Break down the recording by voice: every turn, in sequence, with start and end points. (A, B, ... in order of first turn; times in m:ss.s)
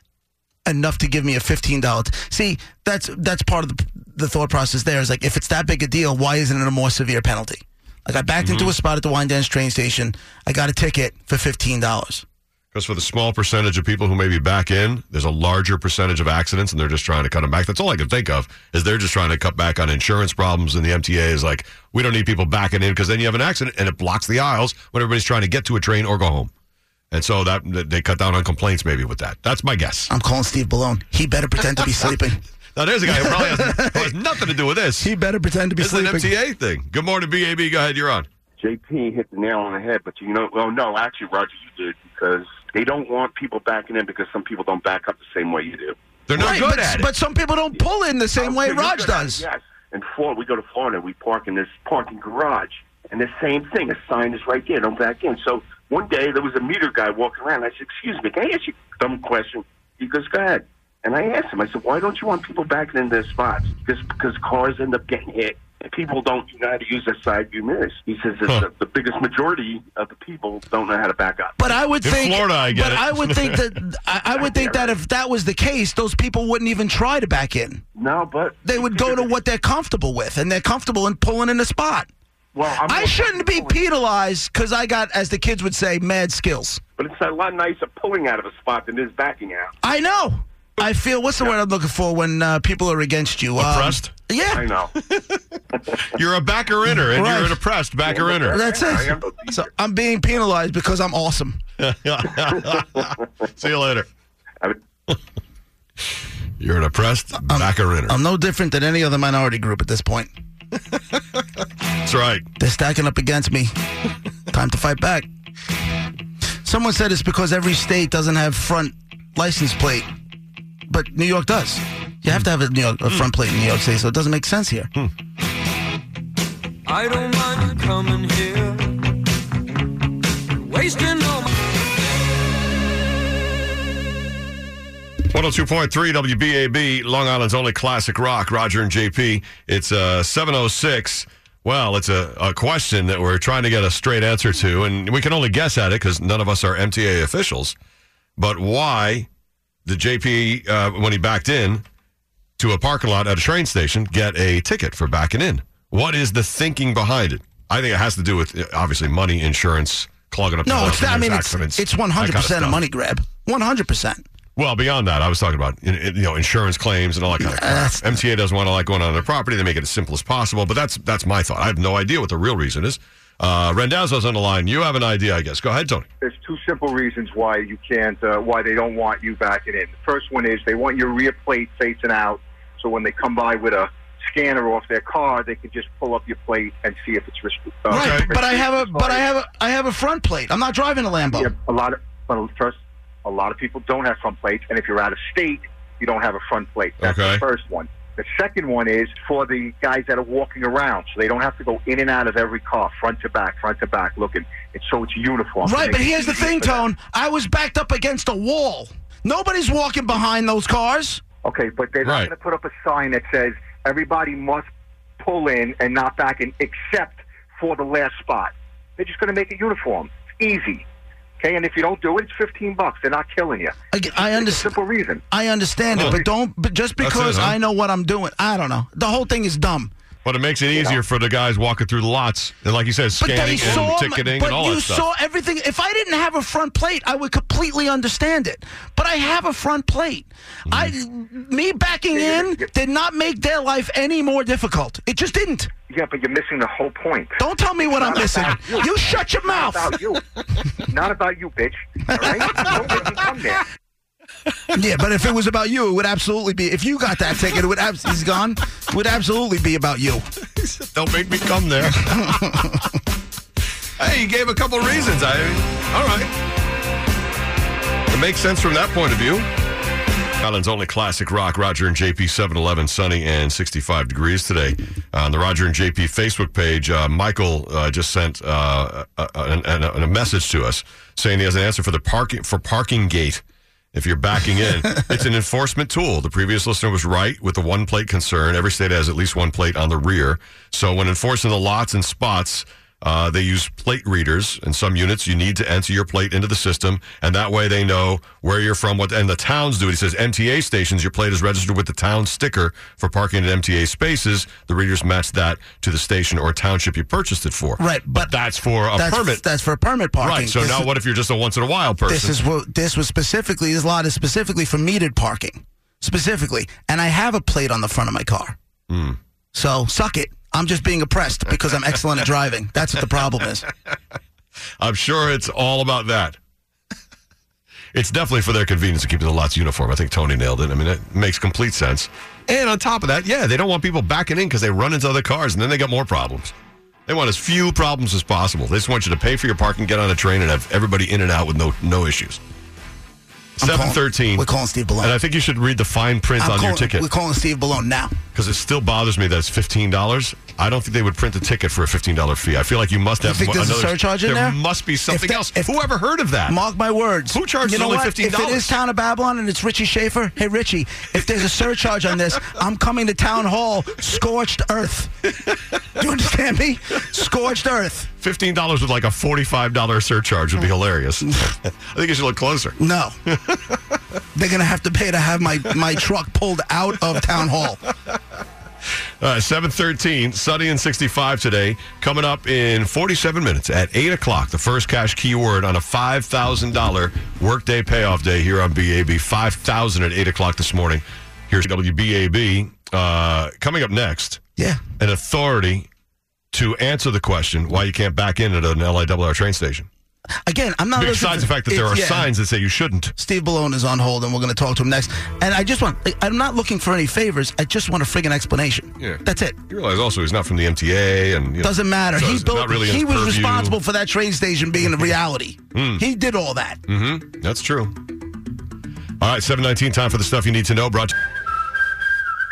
0:00.7-0:12.2 A
0:08.4-0:08.7 B
0:12.7-0:26.5 B
0:27.1-0:30.1 B
0:30.1-0:32.4 A
0:32.8-0:35.1 B
0:33.1-0:34.2 A
0:35.0-0:36.3 A
0:35.8-0:38.3 B
0:38.6-0:46.0 C
0:46.3-0:47.1 B
0:46.4-0:49.4 A
0:48.4-1:11.8 C
1:11.6-1:17.8 A
1:12.0-1:13.7 B
1:14.4-1:15.0 C
1:18.0-1:19.4 C
1:18.6-1:22.1 A
1:22.5-1:23.8 C
1:22.8-1:26.8 A
1:27.0-1:29.7 C
1:29.8-1:34.6 A
1:33.6-1:34.1 B
1:34.5-1:34.9 C
1:35.0-1:35.4 B
1:36.1-1:38.6 B
1:37.0-1:37.6 A
1:38.0-1:39.6 C
1:38.5-1:41.6 A
1:41.8-1:44.1 B
1:46.6-1:48.2 B
1:47.5-1:50.3 A
1:52.0-1:52.4 B
1:52.6-1:53.7 A
1:54.5-1:55.3 A
1:56.6-2:00.1 A
2:00.9-2:04.9 A
2:06.9-2:09.0 D
2:10.6-2:11.6 D
2:15.3-2:27.8 B
2:28.4-2:29.3 B
2:29.9-2:31.8 B
2:32.6-2:42.8 B
2:40.6-2:44.2 A
2:44.6-2:56.0 B
2:47.4-2:48.1 A
2:56.2-3:09.2 E
3:07.9-3:11.5 A
3:07.9-3:08.3 B
3:11.4-3:26.9 E
3:17.0-3:17.4 B
3:25.6-3:31.2 A
3:31.4-3:34.7 E
3:32.0-3:32.3 B
3:35.2-3:40.8 E
3:41.4-3:43.7 E
3:43.9-3:44.8 A
3:44.3-3:45.2 E
3:45.3-3:49.9 A
3:46.0-3:46.2 B
3:46.0-3:46.3 E
3:47.0-3:47.6 B
3:50.2-3:55.1 B
3:53.2-4:05.7 A
4:00.7-4:00.9 B
4:02.1-4:02.6 E
4:05.9-4:07.4 E
4:07.4-4:09.9 A
4:07.9-4:10.2 E
4:10.8-4:13.6 E
4:12.1-4:12.8 A
4:14.7-4:20.2 A
4:20.6-4:22.8 B
4:22.2-4:22.9 A
4:24.0-4:26.3 B
4:28.1-4:29.5 B
4:30.4-4:43.4 B
4:43.9-5:09.4 B
5:07.8-5:08.3 A
5:08.9-5:10.9 A
5:10.2-5:12.4 B
5:12.1-5:18.6 A
5:18.9-5:19.2 B
5:19.5-5:23.7 A
5:24.8-5:26.4 B
5:27.9-5:36.5 B
5:37.1-5:42.4 B
5:43.6-5:44.5 B
5:43.6-5:45.2 A
5:45.0-5:47.1 B
5:46.4-5:48.2 A
5:48.3-5:56.6 B
5:53.2-5:55.8 A
5:56.5-6:05.3 A
5:57.3-5:58.7 B
6:06.0-6:08.1 A
6:08.2-6:12.8 B
6:12.8-6:13.2 A
6:13.3-6:13.8 B
6:14.3-6:17.8 A
6:19.2-6:34.4 B
6:35.0-6:35.9 B
6:36.5-6:39.9 B
6:40.5-6:42.3 A
6:41.0-6:43.1 B
6:43.2-6:49.6 A
6:49.0-6:53.8 B
6:51.6-6:56.8 A
6:55.7-6:56.0 B
6:56.9-6:58.0 B
6:59.2-7:01.1 B